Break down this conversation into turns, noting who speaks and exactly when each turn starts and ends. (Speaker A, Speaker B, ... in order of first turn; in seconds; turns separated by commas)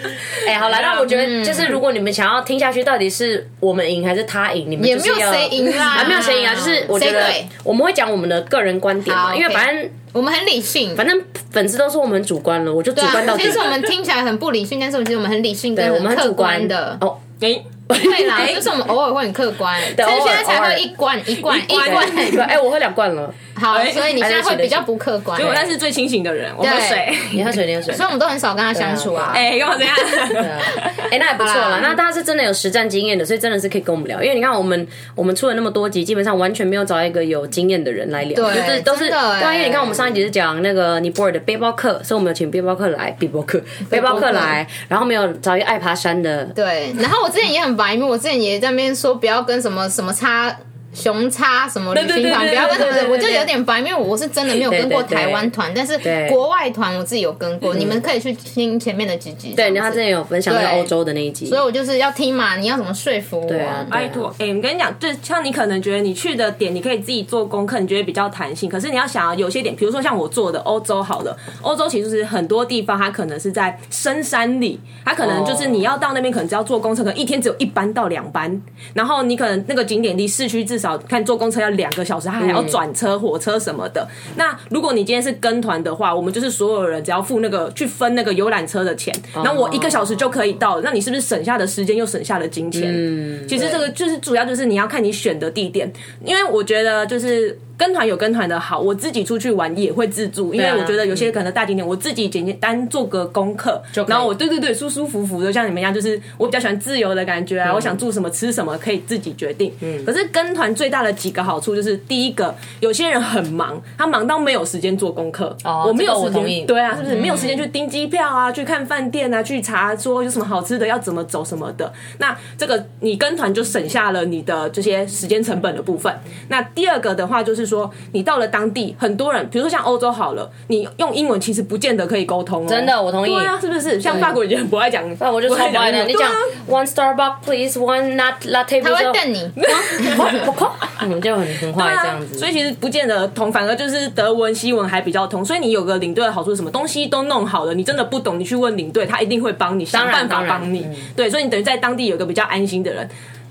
Speaker A: 0.4-9.9, Speaker B: 0.6-1.1, Speaker C: 1.1-1.8, Speaker C: 4.8-7.5, Speaker C: 9.1-11.0, Speaker A: 11.0-13.7, Speaker C: 12.9-17.0, Speaker A: 15.7-17.2, Speaker B: 17.4-17.6, Speaker A: 17.9-18.6, Speaker C: 17.9-22.4, Speaker A: 19.8-20.9, Speaker B: 21.4-22.5, Speaker A: 21.7-23.4, Speaker C: 23.6-25.7, Speaker B: 23.7-24.1, Speaker A: 24.2-24.9, Speaker B: 25.4-27.6, Speaker C: 26.6-27.1, Speaker A: 27.3-28.1, Speaker C: 27.9-29.4, Speaker A: 28.7-29.4, Speaker B: 29.3-31.1, Speaker A: 30.3-46.5, Speaker C: 31.4-32.0, Speaker C: 38.3-40.0, Speaker C: 43.9-44.5, Speaker C: 46.5-60.9, Speaker A: 51.9-53.5, Speaker A: 54.5-55.5, Speaker A: 56.0-56.4, Speaker A: 57.7-58.0, Speaker A: 59.6-61.6, Speaker C: 61.5-63.9, Speaker A: 63.5-64.3, Speaker B: 63.9-136.5, Speaker A: 75.2-75.8, Speaker A: 82.4-82.8, Speaker A: 89.4-90.1, Speaker A: 92.7-93.9, Speaker A: 100.5-101.3, Speaker A: 103.9-104.3, Speaker A: 107.7-108.0, Speaker A: 115.6-117.6, Speaker A: 132.7-133.5, Speaker A: 134.1-134.4, Speaker A: 135.2-142.5, Speaker C: 138.8-139.6, Speaker B: 139.6-140.5, Speaker B: 141.8-153.1, Speaker A: 149.9-151.1